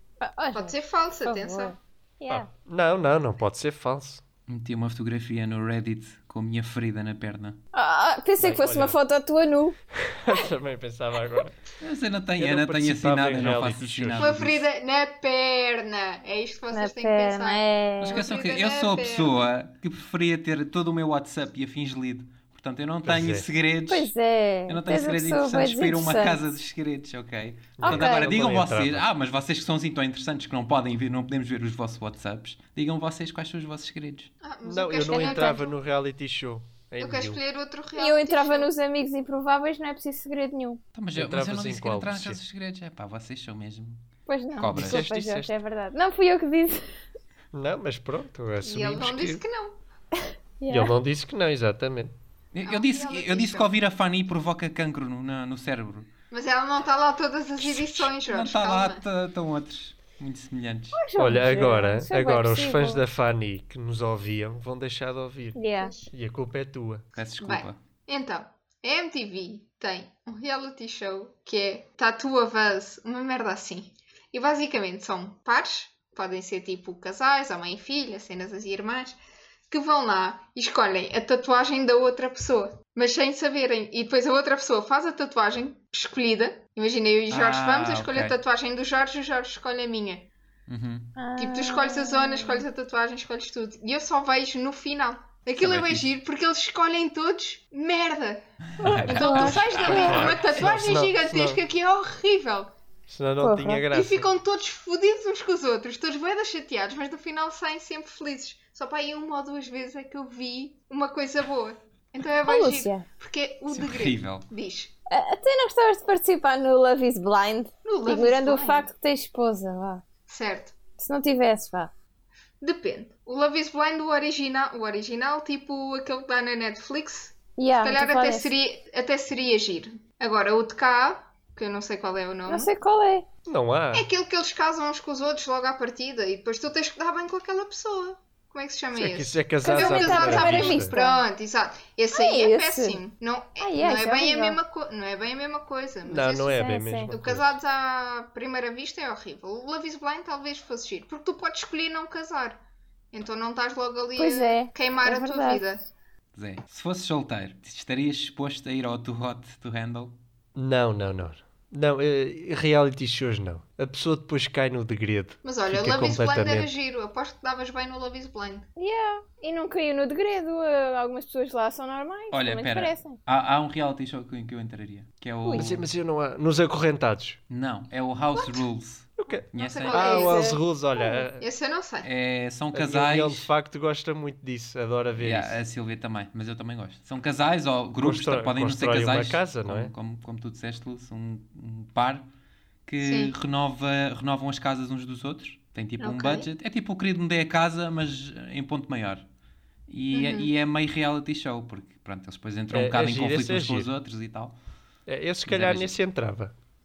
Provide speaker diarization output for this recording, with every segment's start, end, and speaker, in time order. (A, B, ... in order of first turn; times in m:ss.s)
0:00.2-0:02.5 A
0:00.5-0:01.8 B
0:02.3-0:04.2 C
0:04.5-0:07.6 D
0:07.7-0:09.8 A
0:08.4-0:09.0 C
0:10.0-0:11.6 C
0:11.8-0:14.6 D
0:12.4-0:14.4 C
0:14.2-0:19.3 B
0:16.7-0:18.2 A
0:18.0-0:24.1 D
0:23.0-0:23.4 C
0:23.9-0:26.4 A
0:24.7-0:34.3 D
0:27.8-0:29.0 C
0:27.8-0:28.3 A
0:34.4-0:35.7 B
0:34.6-0:37.4 C
0:35.1-0:35.6 A
0:37.0-0:38.7 B
0:38.0-0:40.8 A
0:40.9-0:44.0 D
0:41.1-0:42.4 C
0:44.3-0:46.8 A
0:44.6-0:45.0 D
0:44.7-0:45.5 C
0:47.5-0:49.4 C
0:48.6-0:49.8 B
0:50.6-0:50.9 A
0:50.7-0:52.1 C
0:52.5-0:56.1 D
0:52.6-0:53.7 B
0:56.3-0:59.0 B
0:57.6-1:01.0 D
1:01.0-1:03.0 A
1:01.2-1:07.0 C
1:05.5-1:05.9 A
1:05.8-1:06.1 B
1:07.1-1:07.8 D
1:07.4-1:19.2 B
1:19.7-1:30.3 B
1:27.3-1:28.4 D
1:30.7-1:31.1 D
1:31.2-1:32.6 A
1:31.4-1:42.7 B
1:35.6-1:36.1 D
1:38.8-1:40.2 A
1:38.8-1:40.6 D
1:39.8-1:41.6 C
1:43.1-1:44.3 C
1:43.4-1:43.8 A
1:43.9-1:54.9 B
1:52.5-1:53.0 A
1:53.7-1:54.5 D
1:55.1-2:00.0 A
1:57.8-1:58.8 B
2:00.3-2:00.8 B
2:01.0-2:01.9 A
2:02.6-2:12.7 B
2:07.6-2:08.5 A
2:12.4-2:13.2 A
2:13.4-2:14.0 C
2:13.9-2:32.6 B
2:18.9-2:21.0 C
2:19.6-2:21.2 A
2:22.1-2:23.0 A
2:23.6-2:24.6 A
2:26.1-2:27.5 C
2:26.5-2:27.1 A
2:33.1-2:35.8 B
2:34.2-2:35.6 A
2:36.3-2:40.1 D
2:40.6-2:46.7 C
2:45.4-2:48.7 B
2:48.8-2:53.2 A
2:52.3-2:55.9 D
2:55.4-2:55.7 A
2:55.5-2:57.4 C
2:57.5-3:00.1 D
2:58.3-2:58.6 B
2:59.2-3:01.5 C
2:59.6-3:00.5 B
3:00.0-3:00.6 A
3:01.4-3:02.1 B
3:02.0-3:03.5 D
3:02.7-3:05.6 C
3:05.2-3:12.2 D
3:08.0-3:09.9 C
3:12.9-3:19.2 D
3:13.0-3:13.3 B
3:16.0-3:16.5 B
3:19.9-3:24.5 D
3:20.1-3:20.5 B
3:22.7-3:23.9 C
3:25.1-3:26.5 C
3:25.5-3:25.9 D